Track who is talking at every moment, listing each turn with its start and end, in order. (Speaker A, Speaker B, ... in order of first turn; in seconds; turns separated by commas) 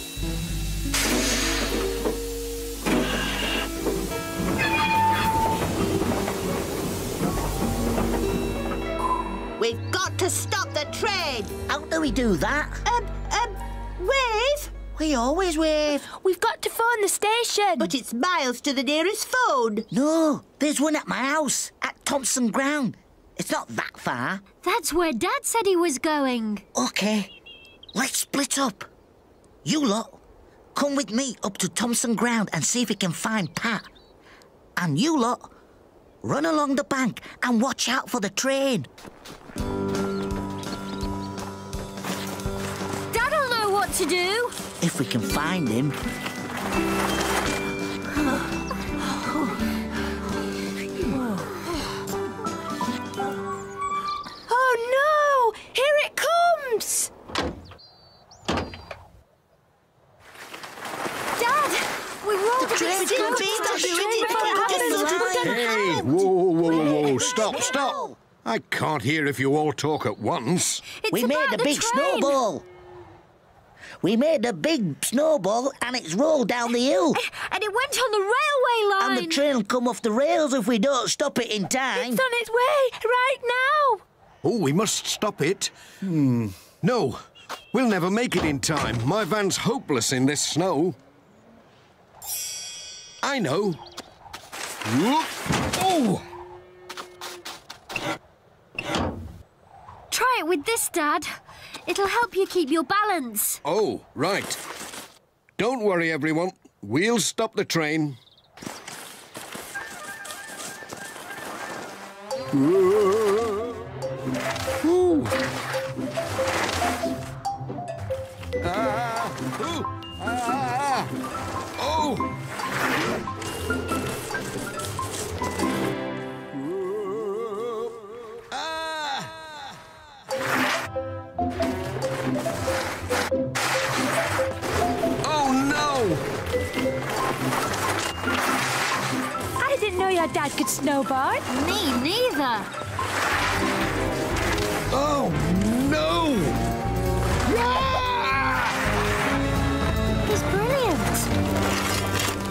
Speaker A: 9.6-11.5, Speaker B: 11.7-12.8, Speaker A: 12.8-14.7, Speaker B: 14.9-16.1, Speaker C: 16.0-17.9, Speaker A: 17.8-19.9, Speaker B: 19.9-24.4, Speaker D: 24.6-26.6, Speaker B: 26.7-27.3, Speaker B: 27.9-28.9, Speaker B: 29.6-30.2, Speaker B: 30.7-33.9, Speaker B: 34.8-35.5, Speaker B: 36.2-38.9, Speaker D: 43.1-44.5, Speaker B: 44.8-46.0, Speaker C: 54.5-57.1, Speaker D: 61.4-66.2, Speaker B: 62.6-66.1, Speaker C: 62.7-65.6, Speaker A: 62.8-65.5, Speaker E: 65.4-70.8, Speaker B: 66.6-68.2, Speaker D: 66.8-68.0, Speaker D: 70.9-72.4, Speaker B: 71.1-72.7, Speaker B: 74.0-77.2, Speaker D: 77.1-79.4, Speaker B: 79.0-82.2, Speaker C: 81.9-84.0, Speaker E: 84.4-87.2, Speaker E: 87.7-91.0, Speaker E: 93.2-93.8, Speaker E: 94.8-96.2, Speaker D: 100.1-103.6, Speaker E: 103.6-104.6, Speaker E: 105.6-108.2, Speaker E: 112.5-113.7, Speaker E: 114.8-115.4, Speaker E: 118.6-121.1, Speaker E: 121.8-122.2, Speaker E: 126.5-129.7, Speaker E: 135.2-136.2, Speaker C: 139.6-141.4, Speaker D: 141.5-142.7, Speaker E: 144.9-146.6, Speaker E: 147.4-148.7, Speaker D: 150.2-151.3